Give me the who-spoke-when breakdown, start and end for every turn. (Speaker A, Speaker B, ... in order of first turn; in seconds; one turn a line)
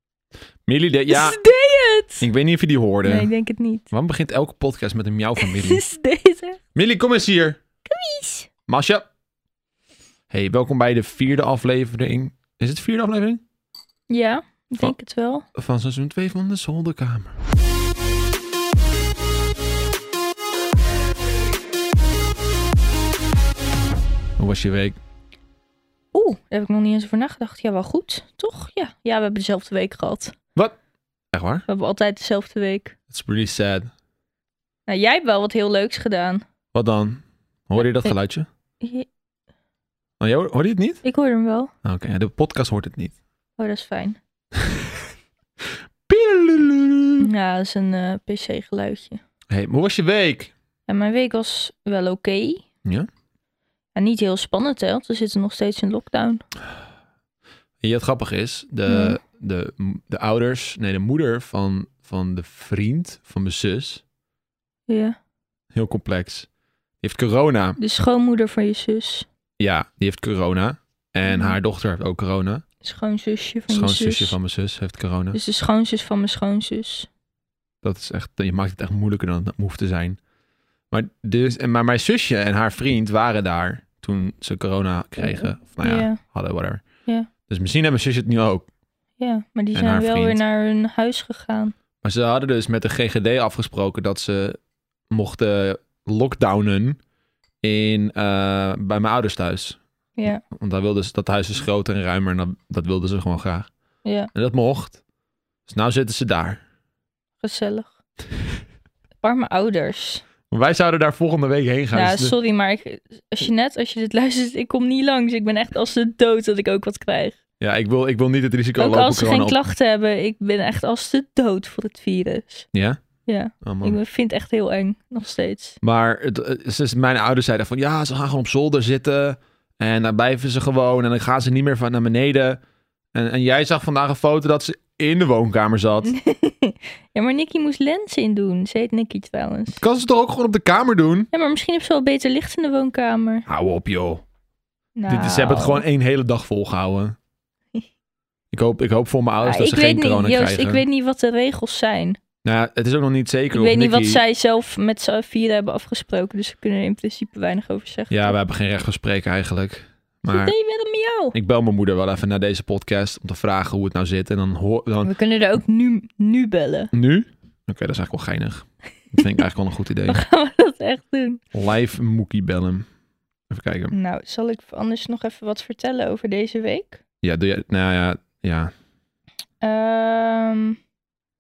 Speaker A: 0.7-1.4
Speaker B: 1.1-2.3
Speaker A: 2.2-3.3
Speaker B: 3.0-3.9
Speaker A: 3.9-5.8
Speaker B: 5.4-6.6
Speaker A: 6.8-7.6
Speaker B: 7.9-8.5
Speaker A: 8.7-9.1
Speaker A: 10.3-13.4
Speaker B: 14.1-15.5
Speaker A: 15.6-17.3
Speaker A: 24.4-25.0
Speaker B: 26.1-30.4
Speaker A: 31.3-31.7
Speaker B: 31.7-33.0
Speaker A: 33.1-33.9
Speaker B: 34.9-36.4
Speaker A: 36.7-38.5
Speaker B: 37.8-38.1
Speaker B: 38.8-39.1
Speaker A: 40.2-41.0
Speaker B: 41.0-41.7
Speaker A: 41.8-43.1
Speaker B: 43.6-44.2
Speaker A: 44.6-44.8
Speaker A: 46.1-47.3
Speaker B: 47.2-49.2
Speaker A: 49.5-50.5
Speaker B: 50.9-52.6
Speaker B: 54.0-56.4
Speaker A: 57.8-64.0
Speaker B: 58.9-59.2
Speaker B: 64.9-65.2
Speaker A: 65.8-66.5
Speaker A: 67.0-67.8
Speaker B: 67.8-69.3
Speaker A: 69.6-72.6
Speaker B: 71.3-71.6
Speaker B: 72.8-74.4
Speaker A: 73.7-75.4
Speaker B: 75.3-77.1
Speaker A: 77.8-80.2
Speaker A: 80.9-86.8
Speaker B: 85.2-86.2
Speaker A: 87.5-88.7
Speaker B: 89.2-91.8
Speaker A: 89.7-90.4
Speaker A: 92.0-94.6
Speaker A: 95.1-97.0
Speaker A: 97.6-99.8
Speaker B: 100.2-100.4
Speaker A: 100.5-103.7
Speaker B: 104.0-104.3
Speaker A: 104.3-105.0
Speaker A: 105.7-106.6
Speaker B: 107.4-107.9
Speaker B: 109.2-110.2
Speaker A: 110.5-112.3
Speaker B: 111.9-117.4
Speaker A: 117.6-119.6
Speaker B: 118.8-122.7
Speaker A: 122.7-123.0
Speaker B: 123.3-125.8
Speaker A: 123.6-124.0
Speaker A: 125.8-132.6
Speaker A: 133.1-136.2
Speaker B: 136.0-139.8
Speaker A: 139.7-141.3
Speaker B: 141.3-143.4
Speaker A: 143.5-144.2
Speaker B: 145.0-145.8
Speaker A: 145.1-147.2
Speaker A: 148.5-150.8
Speaker B: 149.4-152.2
Speaker A: 152.4-154.2
Speaker B: 153.5-158.3
Speaker A: 158.1-160.5
Speaker B: 160.3-161.3
Speaker A: 161.3-165.1
Speaker B: 165.0-166.9
Speaker A: 166.9-170.2
Speaker B: 170.1-171.4
Speaker A: 171.5-172.9
Speaker A: 173.5-173.9
Speaker B: 173.9-177.0
Speaker A: 177.2-178.7
Speaker B: 179.6-180.8